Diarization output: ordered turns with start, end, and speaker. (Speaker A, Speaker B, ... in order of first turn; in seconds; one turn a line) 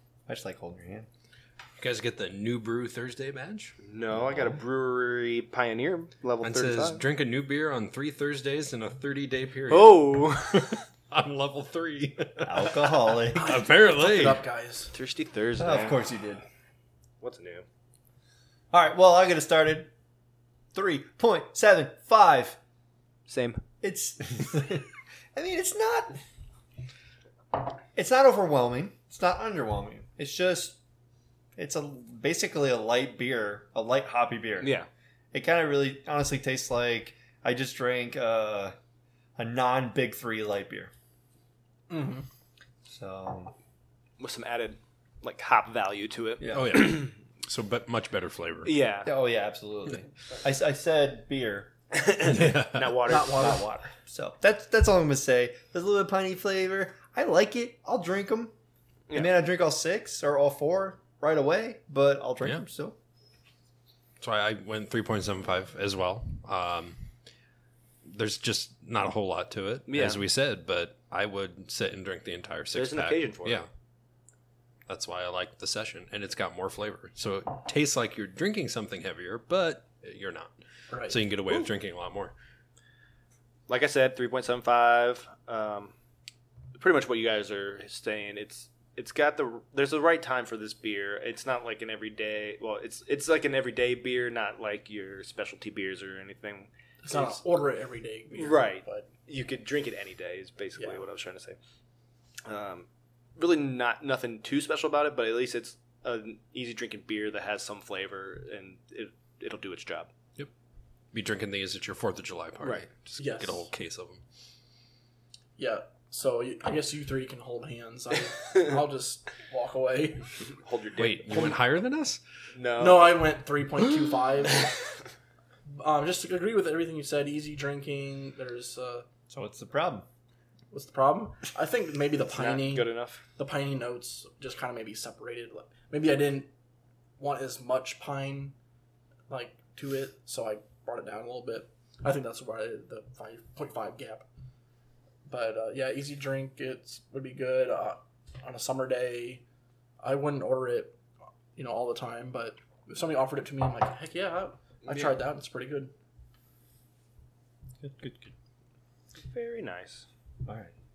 Speaker A: 0.3-1.1
Speaker B: 1.8-3.8
Speaker C: 3.8-7.0
Speaker B: 6.4-14.4
Speaker C: 9.7-10.8
Speaker A: 12.4-13.7
Speaker D: 13.3-14.9
Speaker C: 14.9-16.1
Speaker A: 15.6-16.4
Speaker C: 17.2-17.6
Speaker A: 18.7-19.9
Speaker A: 20.7-22.6
Speaker C: 23.3-23.6
Speaker A: 23.8-26.2
Speaker A: 27.9-30.8
Speaker A: 31.6-34.7
Speaker C: 34.6-34.9
Speaker A: 35.3-38.7
Speaker A: 39.4-40.9
Speaker D: 41.9-42.2
Speaker A: 42.9-43.5
Speaker C: 44.2-47.1
Speaker A: 46.4-47.0
Speaker B: 46.5-48.7
Speaker C: 48.6-49.1
Speaker A: 49.0-51.7
Speaker C: 51.9-53.7
Speaker B: 52.2-53.0
Speaker D: 53.1-53.7
Speaker A: 53.2-58.5
Speaker C: 59.1-59.4
Speaker A: 59.1-63.0
Speaker B: 64.2-67.0
Speaker B: 68.0-73.7
Speaker C: 69.9-70.2
Speaker C: 72.7-73.6
Speaker B: 74.9-80.6
Speaker D: 80.9-81.2
Speaker B: 81.1-82.3
Speaker C: 83.7-85.9
Speaker C: 86.8-97.4
Speaker D: 97.0-99.1
Speaker C: 98.3-101.6
Speaker D: 100.8-101.0
Speaker C: 102.5-110.1
Speaker B: 111.1-114.2
Speaker C: 112.6-112.9
Speaker D: 113.2-113.7
Speaker D: 115.6-120.4
Speaker C: 120.6-121.5
Speaker B: 121.0-122.2
Speaker D: 121.3-121.6
Speaker C: 122.5-123.2
Speaker D: 122.8-124.7
Speaker D: 125.7-129.1
Speaker A: 129.3-130.1
Speaker D: 130.7-136.5
Speaker C: 132.3-133.2
Speaker D: 137.2-138.5
Speaker D: 139.3-144.2
Speaker D: 145.3-149.4
Speaker D: 150.0-151.0
Speaker D: 151.6-155.9
Speaker C: 154.8-155.2
Speaker A: 157.8-158.3
Speaker C: 159.2-160.1
Speaker A: 160.4-160.7